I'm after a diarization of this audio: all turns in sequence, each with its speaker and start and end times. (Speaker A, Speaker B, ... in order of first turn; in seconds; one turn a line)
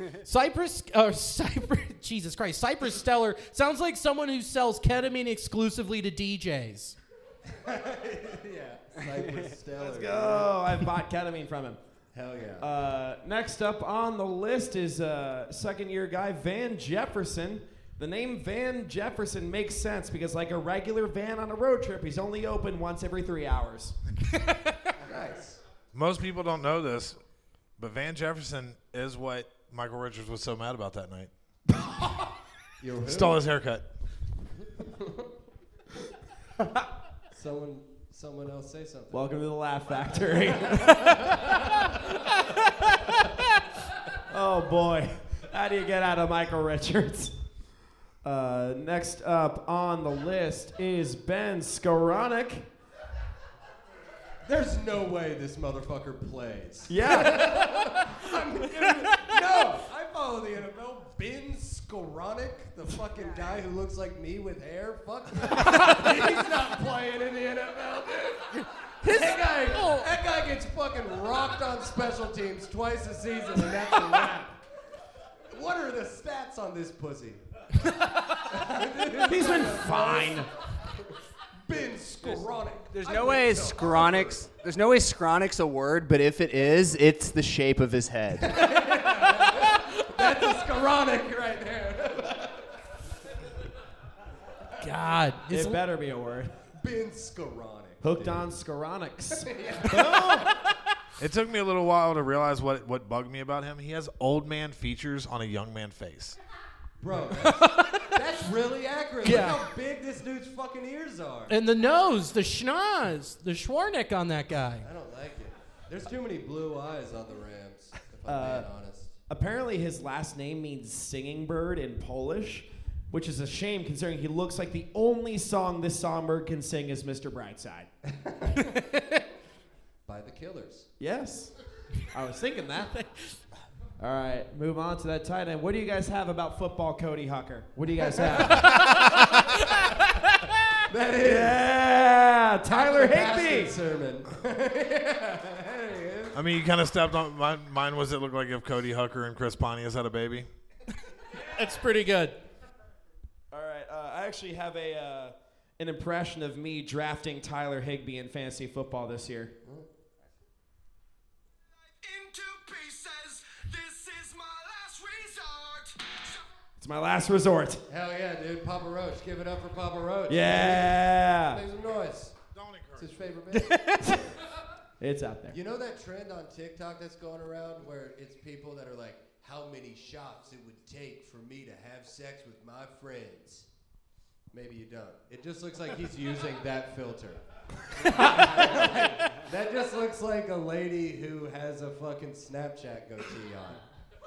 Speaker A: 0.2-7.0
Speaker B: 7.6-10.6
Speaker C: 9.8-11.8
Speaker B: 12.1-12.7
Speaker C: 12.6-24.0
Speaker B: 25.1-25.6
Speaker D: 25.9-27.2
Speaker D: 27.8-31.3
Speaker B: 32.8-33.4
Speaker D: 33.0-33.9
Speaker B: 37.3-39.4
Speaker C: 39.1-41.6
Speaker B: 40.9-41.5
Speaker C: 44.3-47.4
Speaker C: 48.2-52.7
Speaker B: 54.5-74.6
Speaker C: 56.9-57.6
Speaker A: 69.0-70.1
Speaker B: 75.5-77.4
Speaker B: 78.4-80.5
Speaker C: 79.2-80.5
Speaker B: 81.7-84.4
Speaker E: 82.9-88.5
Speaker B: 88.4-92.5
Speaker A: 94.8-95.8
Speaker C: 95.5-96.5
Speaker B: 96.8-98.5
Speaker C: 98.0-100.5
Speaker B: 99.4-100.3
Speaker D: 101.2-106.4
Speaker B: 107.0-111.5
Speaker A: 107.6-108.0
Speaker A: 109.2-109.6
Speaker A: 111.5-114.9
Speaker B: 114.8-119.2
Speaker C: 118.3-118.7
Speaker C: 119.3-127.9
Speaker B: 130.1-130.9
Speaker C: 131.0-131.5
Speaker C: 132.1-132.9
Speaker A: 132.7-133.4
Speaker C: 134.0-139.3
Speaker A: 138.5-140.5
Speaker B: 140.9-141.7
Speaker C: 141.2-143.8
Speaker B: 142.7-146.4
Speaker D: 146.3-150.5
Speaker A: 151.5-152.4
Speaker C: 153.5-159.5
Speaker C: 166.8-167.8
Speaker B: 167.9-172.4
Speaker C: 170.3-171.6
Speaker D: 172.5-173.1
Speaker B: 173.0-173.9
Speaker C: 175.0-175.6
Speaker B: 175.5-183.7
Speaker B: 184.5-187.4
Speaker B: 188.0-193.8
Speaker A: 188.1-188.8